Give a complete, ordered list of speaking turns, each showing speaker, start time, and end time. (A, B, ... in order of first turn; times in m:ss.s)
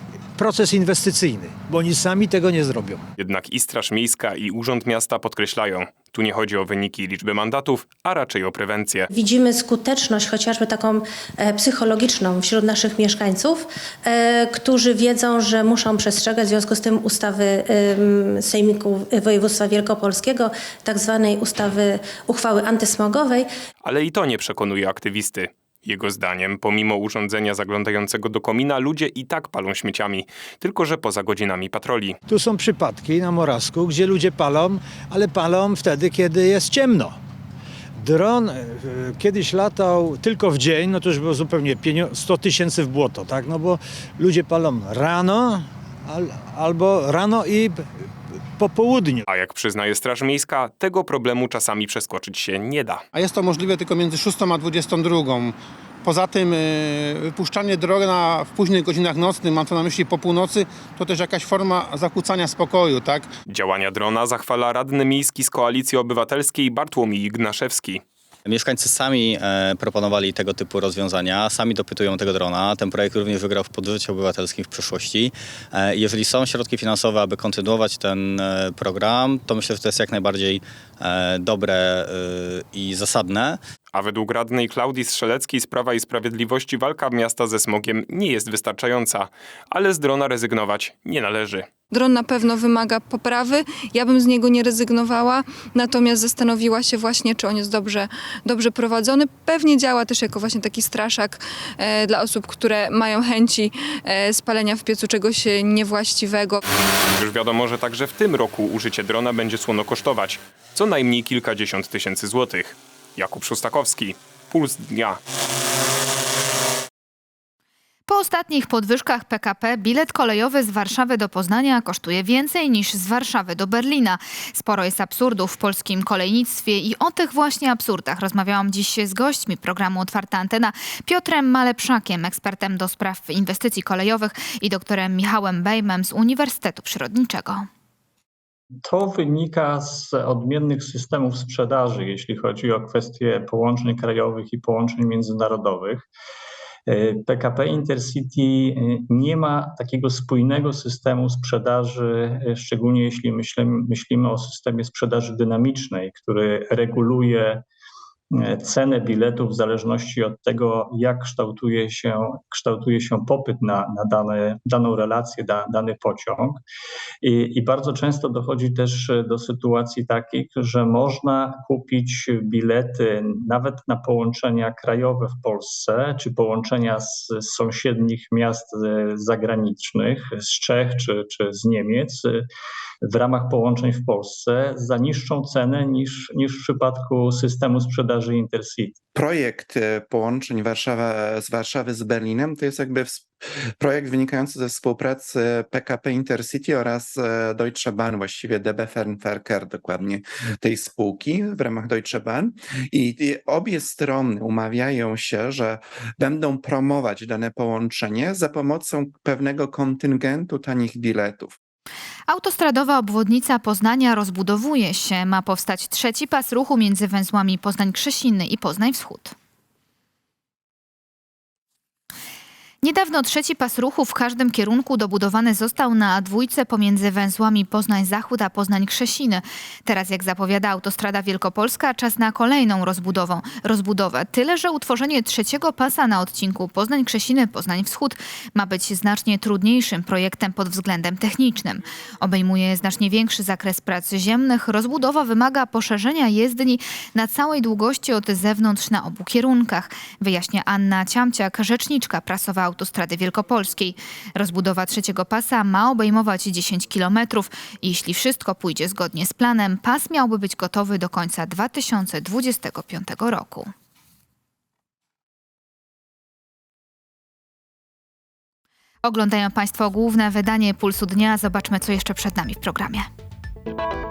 0:00.4-0:03.0 A
0:03.2-0:09.1 B
0:09.1-0:23.5 C
0:23.8-0:32.2 B
0:32.3-0:37.2 A
0:38.0-0:47.8 A
0:48.6-0:49.2 A
0:49.3-0:53.0 B
0:53.1-1:03.3 D
1:03.5-1:08.0 B
1:08.4-1:23.6 E
1:23.9-1:31.7 B
1:31.9-1:46.6 F
1:47.2-1:55.2 B
1:58.1-2:17.7 G
2:18.8-2:26.1 H
2:26.9-2:37.6 H
2:38.3-2:46.6 H
2:47.2-3:02.5 H
3:03.0-3:09.0 H
3:09.2-3:31.6 I
3:32.3-3:39.4 G
3:42.8-4:23.7 G
4:29.0-4:33.1 G